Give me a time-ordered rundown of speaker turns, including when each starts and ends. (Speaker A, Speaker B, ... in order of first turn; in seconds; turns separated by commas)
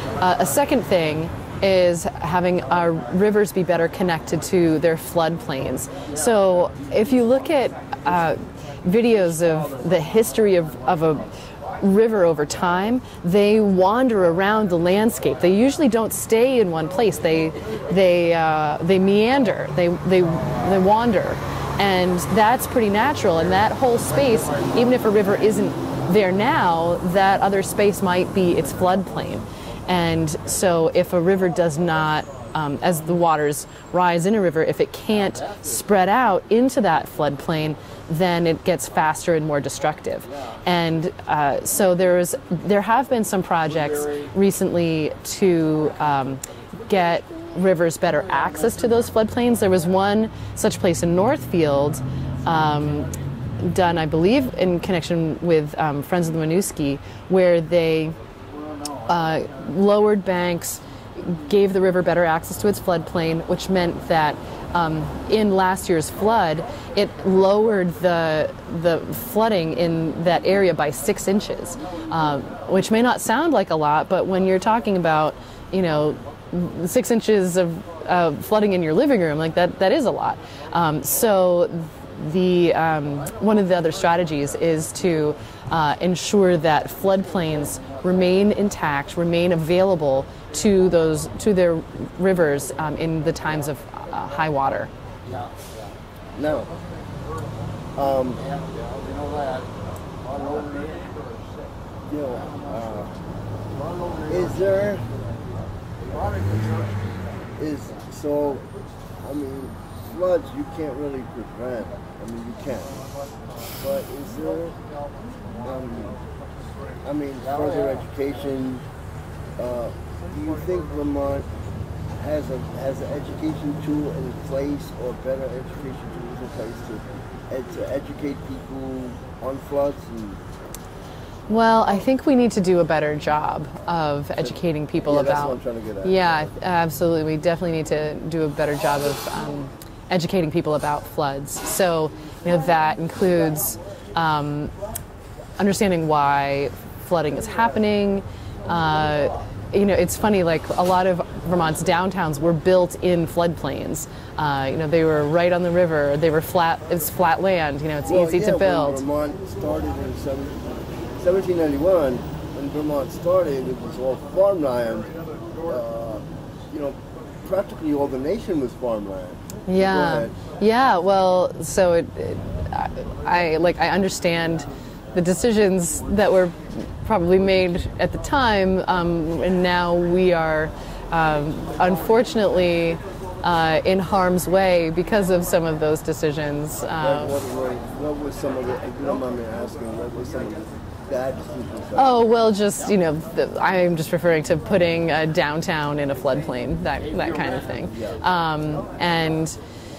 Speaker A: 0.2-58.2, Speaker A: 59.1-94.9, Speaker B: 96.4-96.7, Speaker B: 98.0-98.5, Speaker B: 102.1-103.2, Speaker B: 104.3-105.1, Speaker B: 106.4-106.8, Speaker B: 107.6-108.7, Speaker B: 109.2-113.0, Speaker B: 113.8-114.8, Speaker B: 115.6-116.2, Speaker B: 117.0-118.8, Speaker B: 119.6-121.5, Speaker B: 122.2-130.4, Speaker A: 131.5-144.7, Speaker B: 134.4-136.5, Speaker A: 145.6-159.0, Speaker B: 158.1-165.1, Speaker B: 165.7-170.4, Speaker A: 169.7-187.4, Speaker B: 187.0-192.3, Speaker A: 192.0-199.6, Speaker B: 197.9-198.2